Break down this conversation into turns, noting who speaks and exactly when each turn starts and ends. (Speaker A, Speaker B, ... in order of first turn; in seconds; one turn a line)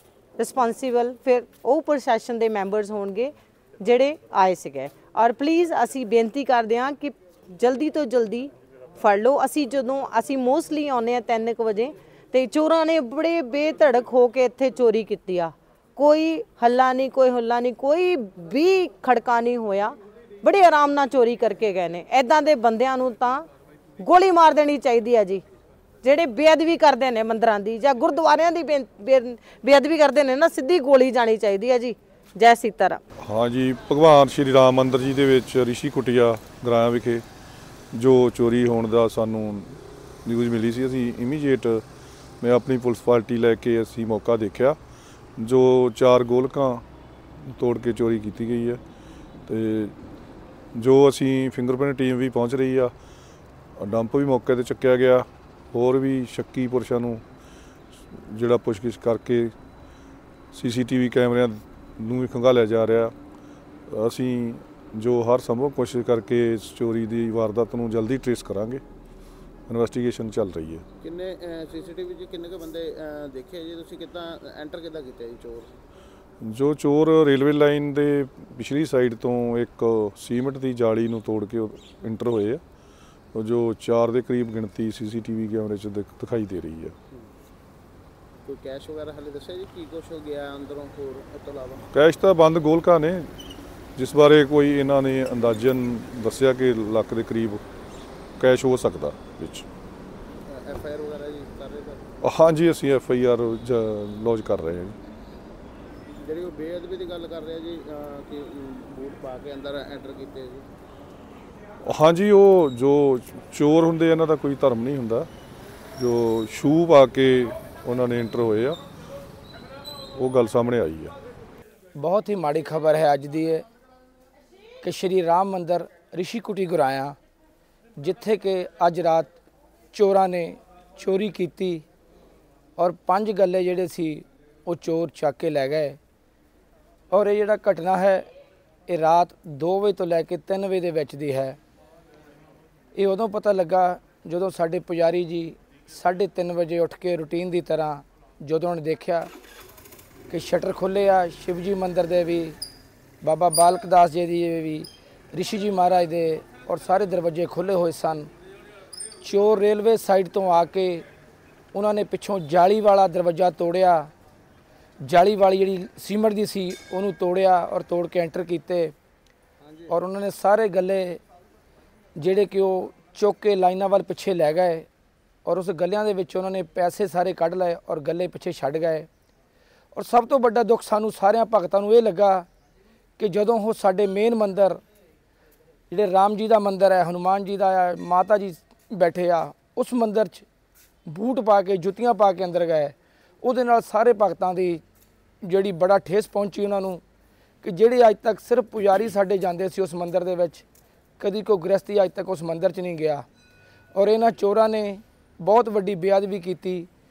Speaker A: 0.4-23.5
Speaker A: 24.0-25.4
Speaker A: 26.0-33.0
Speaker B: 33.2-37.2
Speaker B: 37.9-41.9
Speaker B: 42.4-44.8
Speaker B: 45.4-46.9
Speaker B: 47.4-48.8
Speaker B: 49.5-50.0
Speaker B: 50.7-52.9
Speaker B: 53.8-57.2
Speaker B: 58.1-59.5
Speaker B: 60.5-63.1
Speaker B: 63.9-68.8
Speaker B: 69.7-70.8
Speaker C: 71.0-75.7
Speaker B: 76.4-82.6
Speaker B: 83.3-87.0
Speaker C: 88.5-91.8
Speaker B: 91.9-93.3
Speaker B: 94.0-97.6
Speaker B: 98.4-99.7
Speaker C: 100.5-102.0
Speaker B: 102.2-105.0
Speaker C: 106.2-110.7
Speaker B: 111.8-115.3
Speaker B: 116.0-118.8
Speaker B: 120.2-121.1
Speaker D: 122.0-123.7
Speaker D: 124.8-127.2
Speaker D: 128.0-129.4
Speaker D: 129.9-131.8
Speaker D: 132.8-136.0
Speaker D: 137.1-138.3
Speaker D: 138.9-141.6
Speaker D: 142.9-149.3
Speaker D: 150.3-152.6
Speaker D: 153.2-158.3
Speaker D: 159.2-161.1
Speaker D: 161.7-164.1
Speaker D: 165.0-168.9
Speaker D: 169.9-171.2
Speaker D: 172.2-174.9
Speaker D: 175.4-179.1
Speaker D: 179.9-182.5
Speaker D: 183.2-184.8
Speaker D: 185.9-190.5
Speaker D: 191.1-194.8
Speaker D: 195.4-197.0
Speaker D: 197.6-200.7
Speaker D: 201.2-203.2
Speaker D: 203.9-206.9